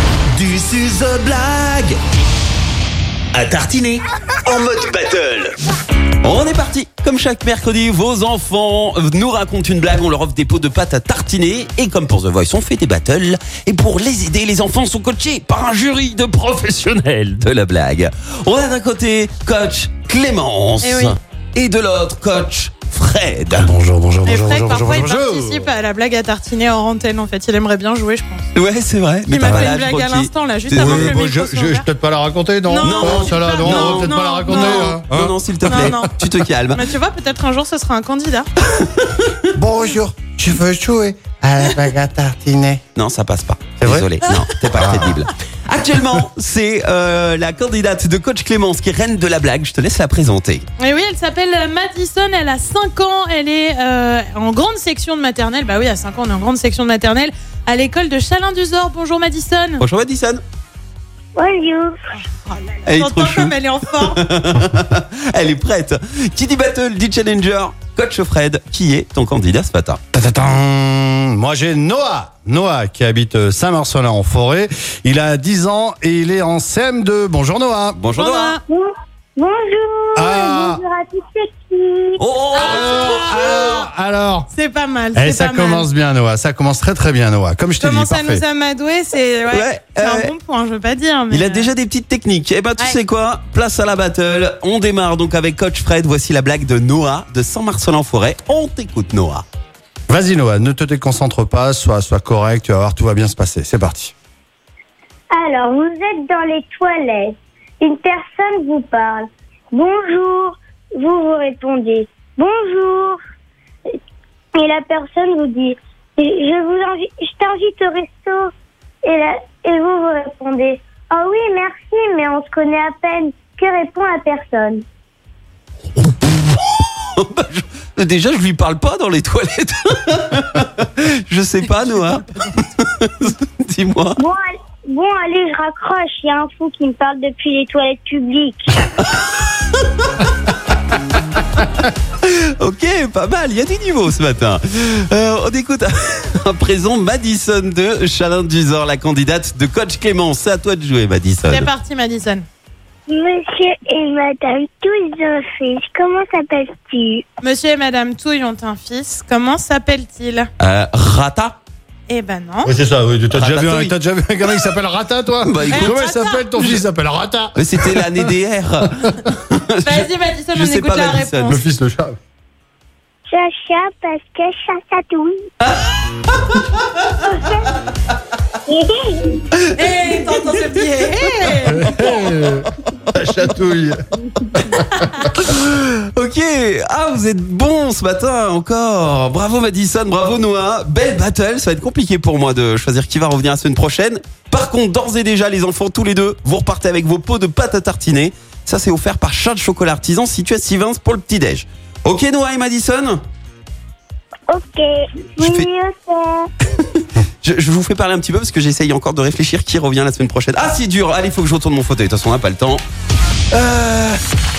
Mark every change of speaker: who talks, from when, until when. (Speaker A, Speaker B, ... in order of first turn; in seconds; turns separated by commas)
Speaker A: 0.3-2.0, Speaker A: 3.3-5.5, Speaker B: 6.2-23.7, Speaker C: 20.8-21.1, Speaker D: 23.5-25.7, Speaker C: 24.2-28.5, Speaker B: 28.5-31.2, Speaker C: 29.3-31.8, Speaker D: 29.4-29.7, Speaker D: 30.8-36.0, Speaker C: 32.7-35.0, Speaker B: 32.8-36.8, Speaker C: 35.6-36.1, Speaker C: 36.7-38.5, Speaker B: 38.6-39.5, Speaker D: 39.5-42.8, Speaker B: 42.9-50.6, Speaker D: 43.8-44.1, Speaker C: 44.2-44.5, Speaker D: 44.7-45.2, Speaker C: 50.8-59.8, Speaker B: 59.8-60.4, Speaker E: 61.3-62.0, Speaker C: 62.5-64.2, Speaker B: 62.9-63.5, Speaker B: 64.1-70.0, Speaker D: 70.1-78.0, Speaker B: 77.9-78.6, Speaker C: 78.1-78.6, Speaker E: 78.7-82.3, Speaker D: 80.2-80.8, Speaker B: 82.2-83.8, Speaker C: 82.5-83.9, Speaker D: 82.6-84.5, Speaker C: 84.5-85.9, Speaker D: 85.1-88.4, Speaker C: 87.8-91.7, Speaker B: 89.5-90.3, Speaker B: 91.3-99.4, Speaker D: 100.1-104.1, Speaker E: 105.3-113.2, Speaker E: 114.5-118.5, Speaker E: 119.0-124.8, Speaker B: 126.0-134.2, Speaker E: 134.2-138.6, Speaker B: 139.4-140.3, Speaker B: 142.2-151.7, Speaker C: 151.5-152.4, Speaker E: 153.1-157.2, Speaker C: 157.4-160.5, Speaker B: 160.6-161.6, Speaker C: 162.1-162.7, Speaker D: 162.6-168.3, Speaker B: 163.3-163.9, Speaker B: 165.4-166.0, Speaker C: 165.7-166.5, Speaker B: 167.6-171.5, Speaker C: 169.8-171.6, Speaker D: 171.5-172.2, Speaker E: 173.3-175.3, Speaker B: 175.6-177.1, Speaker E: 177.2-177.7, Speaker E: 178.7-179.4, Speaker C: 179.7-181.9, Speaker B: 180.0-182.3, Speaker D: 181.7-184.0, Speaker B: 183.2-183.7, Speaker B: 184.5-203.2, Speaker E: 204.5-206.5, Speaker B: 205.4-205.7, Speaker B: 206.9-212.8, Speaker B: 213.5-214.2